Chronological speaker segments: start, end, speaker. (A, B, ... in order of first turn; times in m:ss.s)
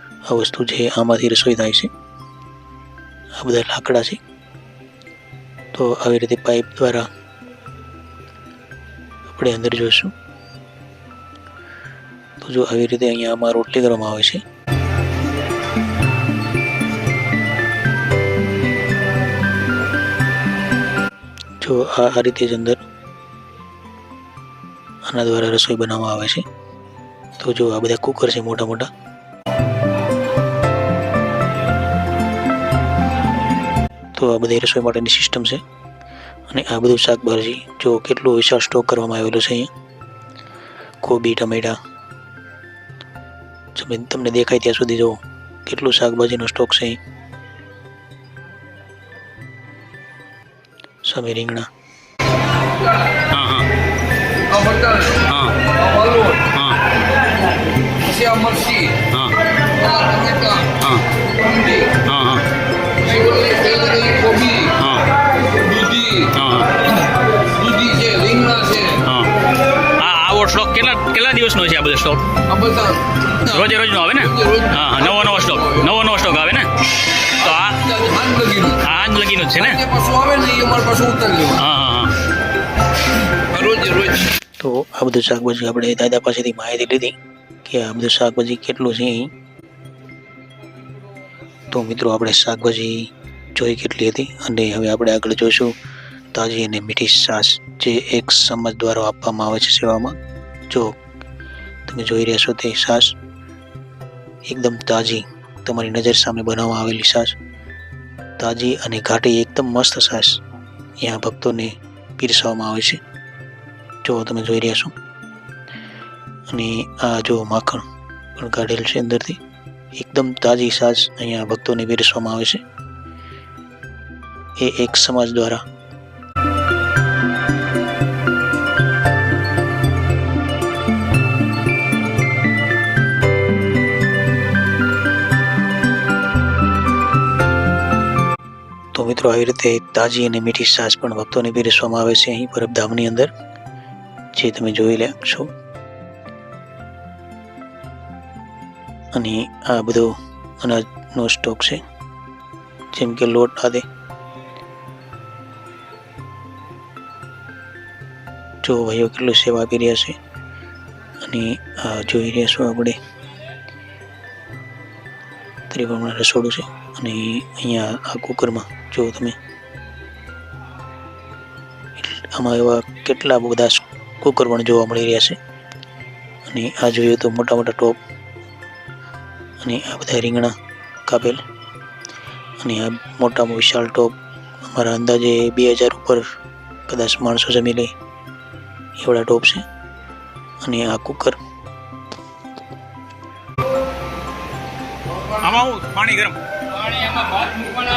0:00.2-0:01.9 A
0:03.3-0:04.2 A
0:05.7-0:07.1 A
0:09.2-0:10.1 A
0:12.4-0:14.4 A
0:21.6-0:22.8 A
0:25.0-0:26.4 A
0:27.4-0:28.9 A
0:34.1-0:35.6 A
0:36.5-0:39.7 A
0:41.0-0:41.8 A
0:43.8-0:47.0 A
0:51.0-0:51.7 A
0:53.3-0:53.7 B
0:54.5-0:56.5 C
0:55.3-0:55.6 B
0:56.5-0:56.8 B
0:58.0-0:59.0 C
0:59.1-0:59.4 B
0:59.8-1:00.7 C
1:00.8-1:01.0 B
1:01.3-1:02.0 C
1:02.0-1:02.5 B
1:03.0-1:04.8 C
1:04.7-1:05.1 B
1:05.6-1:06.3 C
1:06.3-1:06.8 B
1:07.5-1:09.0 C
1:09.0-1:09.3 B
1:09.9-1:12.2 B
1:12.4-1:15.9 C
1:13.4-1:16.7 B
1:17.4-1:18.8 C
1:17.4-1:17.8 B
1:18.8-1:19.8 B
1:19.5-1:21.7 C
1:21.6-1:22.1 B
1:23.5-1:24.2 C
1:24.6-1:29.3 A
1:31.7-1:35.8 A
1:36.3-1:40.2 A
1:40.7-1:41.0 A
1:41.9-1:43.2 A
1:44.4-1:47.4 A
1:48.4-1:50.4 A
1:51.0-1:53.0 A
1:54.0-1:54.9 A
1:56.5-1:57.8 A
1:58.4-1:59.4 A
1:59.9-2:02.6 A
2:04.6-2:05.6 A
2:18.9-2:23.3 A
2:24.3-2:25.5 A
2:29.1-2:31.8 A
2:32.9-2:33.8 A
2:38.6-2:40.2 A
2:41.2-2:43.0 A
2:45.7-2:49.4 A
2:52.0-2:55.4 A
2:56.5-2:58.0 A
2:59.6-3:00.5 A
3:01.1-3:01.4 A
3:02.6-3:06.3 A
3:06.9-3:07.9 A
3:09.0-3:09.6 A
3:10.6-3:11.4 A
3:15.3-3:17.4 B